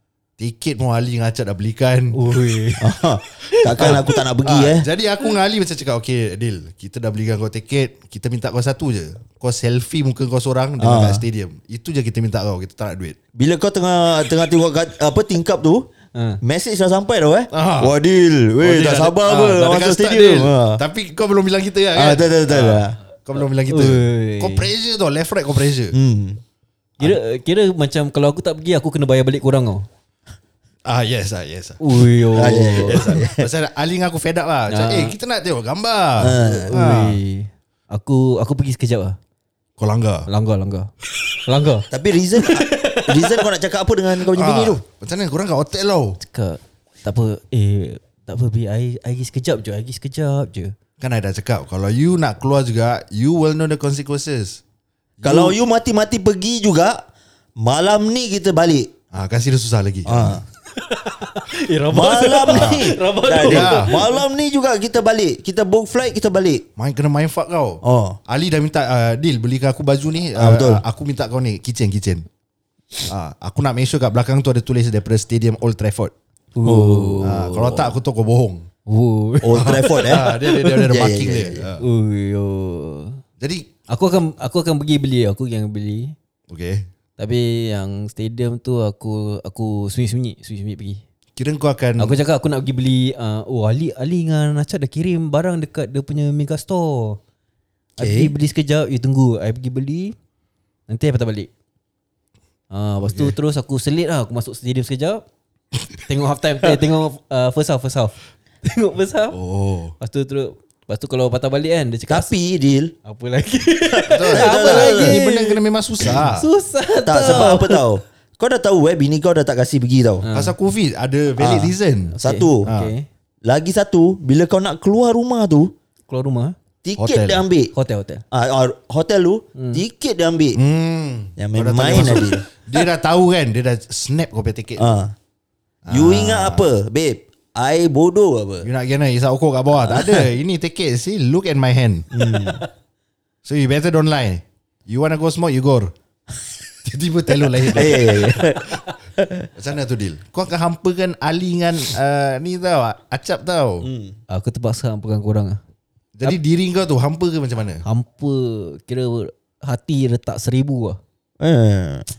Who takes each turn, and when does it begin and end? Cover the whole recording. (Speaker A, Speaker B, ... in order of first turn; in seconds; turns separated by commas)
Speaker A: 0.4-2.2, Speaker B: 2.1-4.1, Speaker C: 2.8-4.9, Speaker A: 3.7-13.2, Speaker C: 10.8-11.2, Speaker C: 13.3-15.9, Speaker B: 16.1-16.4, Speaker C: 16.4-20.8, Speaker A: 17.5-17.9, Speaker A: 18.6-26.0, Speaker B: 19.3-20.1, Speaker C: 21.9-23.0, Speaker B: 23.4-24.7, Speaker C: 25.9-26.4, Speaker B: 27.0-29.9, Speaker A: 30.9-31.8, Speaker B: 31.8-33.2, Speaker C: 32.3-33.5, Speaker A: 32.3-37.2, Speaker B: 34.7-35.1, Speaker C: 36.2-36.8, Speaker B: 36.4-39.2, Speaker A: 39.8-40.3, Speaker B: 40.3-40.9, Speaker B: 41.5-43.5, Speaker C: 41.9-44.8, Speaker A: 44.3-46.2, Speaker B: 46.2-50.7, Speaker A: 51.0-54.6, Speaker A: 55.2-55.6, Speaker C: 55.2-57.0, Speaker C: 57.6-58.9, Speaker A: 59.1-60.4, Speaker C: 60.1-60.4, Speaker B: 60.8-64.2, Speaker C: 61.9-66.6, Speaker A: 62.5-62.9, Speaker A: 63.4-64.0, Speaker A: 66.8-72.3, Speaker C: 67.8-68.2, Speaker C: 70.3-70.8, Speaker A: 73.1-76.1, Speaker B: 76.5-78.0, Speaker C: 76.6-77.3, Speaker A: 77.2-78.7, Speaker B: 78.9-80.9, Speaker C: 79.4-81.7, Speaker A: 79.5-81.8, Speaker B: 81.8-83.2, Speaker A: 83.4-83.7, Speaker B: 83.9-86.2, Speaker A: 86.5-86.9, Speaker B: 87.2-91.0, Speaker A: 91.4-92.2, Speaker B: 92.0-97.2, Speaker C: 98.0-98.3, Speaker B: 98.0-100.2, Speaker B: 100.9-101.5, Speaker B: 102.7-105.2, Speaker A: 103.0-103.3, Speaker B: 106.1-109.4, Speaker A: 109.3-109.9, Speaker B: 110.0-112.3, Speaker C: 112.1-113.0, Speaker B: 113.0-117.8, Speaker C: 113.9-115.2, Speaker A: 114.1-116.5, Speaker C: 117.1-120.3, Speaker B: 120.2-120.5, Speaker A: 120.3-122.2, Speaker C: 121.4-122.7, Speaker B: 122.1-123.1, Speaker A: 122.7-122.9, Speaker C: 123.5-125.7, Speaker B: 126.1-126.5, Speaker C: 126.8-127.7, Speaker A: 127.0-127.4, Speaker B: 127.7-128.2, Speaker C: 128.3-130.6, Speaker B: 129.6-129.8, Speaker A: 130.6-135.0, Speaker C: 131.4-132.4, Speaker C: 134.8-135.2, Speaker A: 135.9-136.7, Speaker C: 135.9-138.7, Speaker A: 138.6-142.1, Speaker C: 139.8-140.3, Speaker C: 142.1-142.6, Speaker B: 142.2-142.7, Speaker A: 143.4-145.9, Speaker A: 146.8-148.8, Speaker C: 147.6-149.5, Speaker A: 149.6-153.9, Speaker C: 153.8-154.2, Speaker B: 154.3-155.6, Speaker A: 156.2-157.8, Speaker B: 157.8-161.0, Speaker C: 161.4-162.1